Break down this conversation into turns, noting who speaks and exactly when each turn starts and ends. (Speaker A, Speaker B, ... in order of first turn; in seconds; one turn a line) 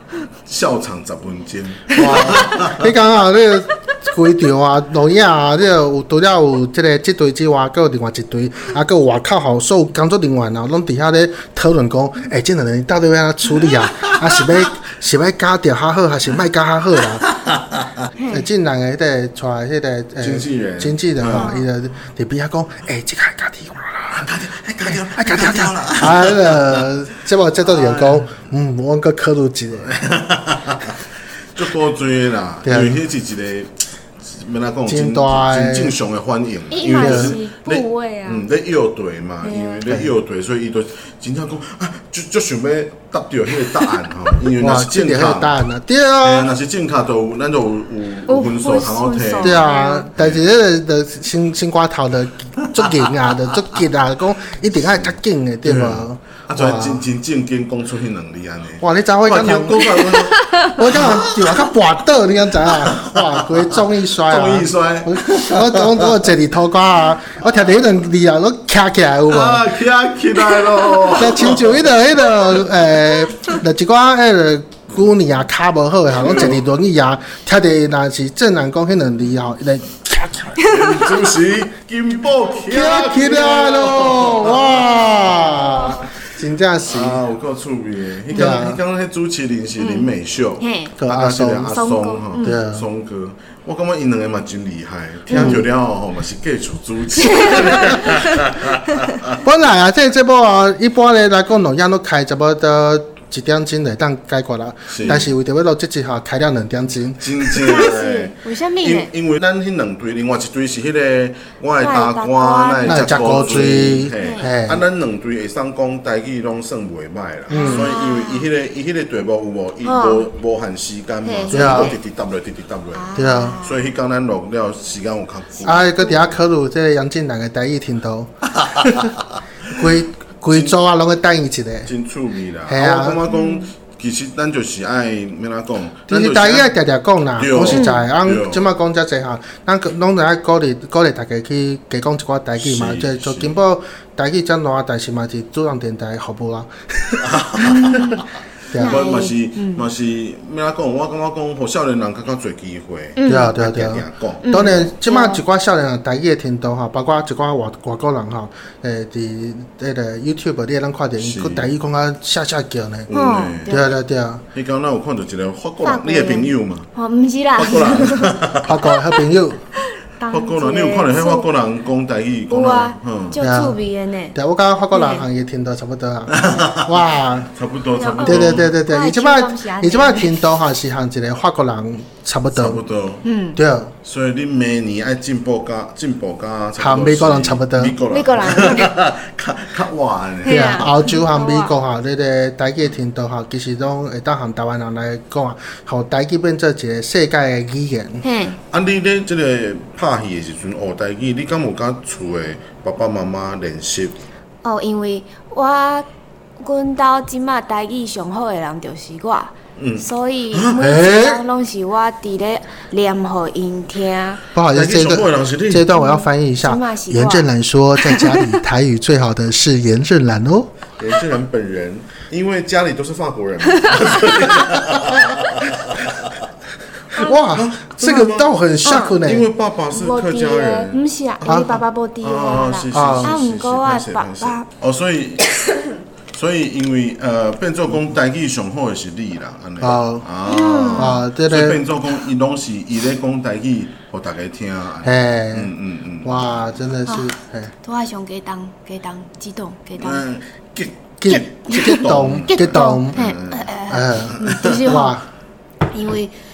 Speaker A: 0.4-2.9
Speaker B: 1.9-2.2
Speaker C: 1.9-17.2
Speaker A: 13.6-14.4
Speaker A: 17.2-18.1
Speaker B: 18.2-18.5
Speaker C: 18.3-24.3
Speaker A: 20.2-21.5
Speaker B: 21.3-21.7
Speaker A: 24.1-26.9
Speaker C: 24.9-30.0
Speaker A: 27.6-28.5
Speaker A: 29.7-31.0
Speaker A: 31.5-45.6
Speaker C: 32.6-33.0
Speaker C: 34.9-35.9
Speaker B: 36.7-38.5
Speaker C: 37.0-37.4
Speaker B: 39.4-39.8
Speaker C: 44.6-46.5
Speaker A: 46.2-50.4
Speaker B: 48.3-50.1
Speaker C: 49.4-57.0
Speaker A: 52.6-53.2
Speaker A: 55.6-61.8
Speaker C: 58.8-69.7
Speaker B: 60.2-60.8
Speaker A: 62.6-66.3
Speaker A: 69.3-72.0
Speaker B: 70.5-71.2
Speaker C: 71.1-80.6
Speaker A: 76.1-76.6
Speaker B: 80.6-81.2
Speaker A: 80.6-85.4
Speaker C: 82.6-87.2
Speaker B: 82.8-84.2
Speaker B: 85.0-86.0
Speaker A: 86.8-99.4
Speaker C: 88.3-88.8
Speaker B: 89.8-90.1
Speaker B: 90.6-90.9
Speaker C: 91.0-91.7
Speaker B: 91.7-92.6
Speaker C: 92.4-92.8
Speaker B: 95.3-95.6
Speaker C: 95.3-95.7
Speaker B: 97.2-98.4
Speaker C: 99.4-107.8
Speaker A: 104.9-105.3
Speaker A: 107.2-123.1
Speaker B: 107.6-109.1
Speaker B: 111.8-113.6
Speaker C: 112.8-114.8
Speaker B: 114.2-114.5
Speaker B: 117.5-118.5
Speaker C: 117.5-117.9
Speaker B: 119.8-120.3
Speaker B: 121.2-122.0
Speaker C: 121.5-121.9
Speaker B: 122.9-123.9
Speaker C: 123.1-123.6
Speaker A: 123.6-126.3
Speaker C: 125.6-129.1
Speaker A: 128.5-129.8
Speaker C: 129.7-131.9
Speaker A: 130.5-130.8
Speaker A: 131.8-136.7
Speaker C: 132.7-133.2
Speaker B: 133.3-133.7
Speaker C: 136.1-147.3
Speaker A: 137.4-138.6
Speaker B: 137.6-138.1
Speaker A: 142.6-143.5
Speaker A: 147.2-154.9
Speaker B: 147.6-148.2
Speaker C: 148.7-149.0
Speaker B: 148.7-149.9
Speaker B: 153.2-153.6
Speaker C: 153.2-163.1
Speaker B: 154.4-155.4
Speaker A: 161.2-161.7
Speaker A: 163.1-163.8
Speaker B: 163.1-164.0
Speaker C: 163.7-164.4
Speaker A: 164.5-166.9
Speaker B: 165.8-168.4
Speaker A: 167.6-168.8
Speaker C: 168.6-169.6
Speaker B: 168.9-169.2
Speaker B: 169.8-171.5
Speaker A: 170.3-173.4
Speaker B: 172.5-174.4
Speaker C: 173.4-173.8
Speaker C: 174.3-177.5
Speaker B: 174.9-175.3
Speaker A: 176.3-178.7
Speaker B: 178.0-180.4
Speaker C: 178.2-182.8
Speaker A: 182.5-183.2
Speaker B: 183.2-183.6
Speaker C: 183.6-183.9
Speaker A: 184.0-190.8
Speaker C: 186.8-188.0
Speaker B: 188.1-188.9
Speaker B: 190.4-191.7
Speaker C: 190.5-198.2
Speaker B: 198.2-198.6
Speaker A: 198.7-204.3
Speaker B: 204.6-214.4
Speaker A: 209.8-210.8
Speaker C: 210.8-211.4
Speaker C: 214.5-220.7
Speaker A: 214.7-215.9
Speaker B: 215.9-218.6
Speaker A: 221.0-226.4
Speaker B: 223.7-224.2
Speaker C: 227.1-229.5
Speaker A: 227.1-231.0
Speaker B: 228.8-229.2
Speaker B: 229.9-234.7
Speaker C: 231.4-231.8
Speaker A: 232.2-235.5
Speaker C: 232.9-233.4
Speaker B: 235.6-235.9
Speaker A: 236.3-246.8
Speaker C: 239.8-240.2
Speaker B: 240.4-241.2
Speaker C: 240.9-241.8
Speaker C: 245.0-245.7
Speaker C: 246.2-247.7
Speaker B: 247.1-250.3
Speaker A: 250.0-254.8
Speaker C: 251.2-253.2
Speaker B: 251.7-252.0
Speaker B: 252.5-255.2
Speaker C: 253.9-255.2
Speaker B: 255.9-256.3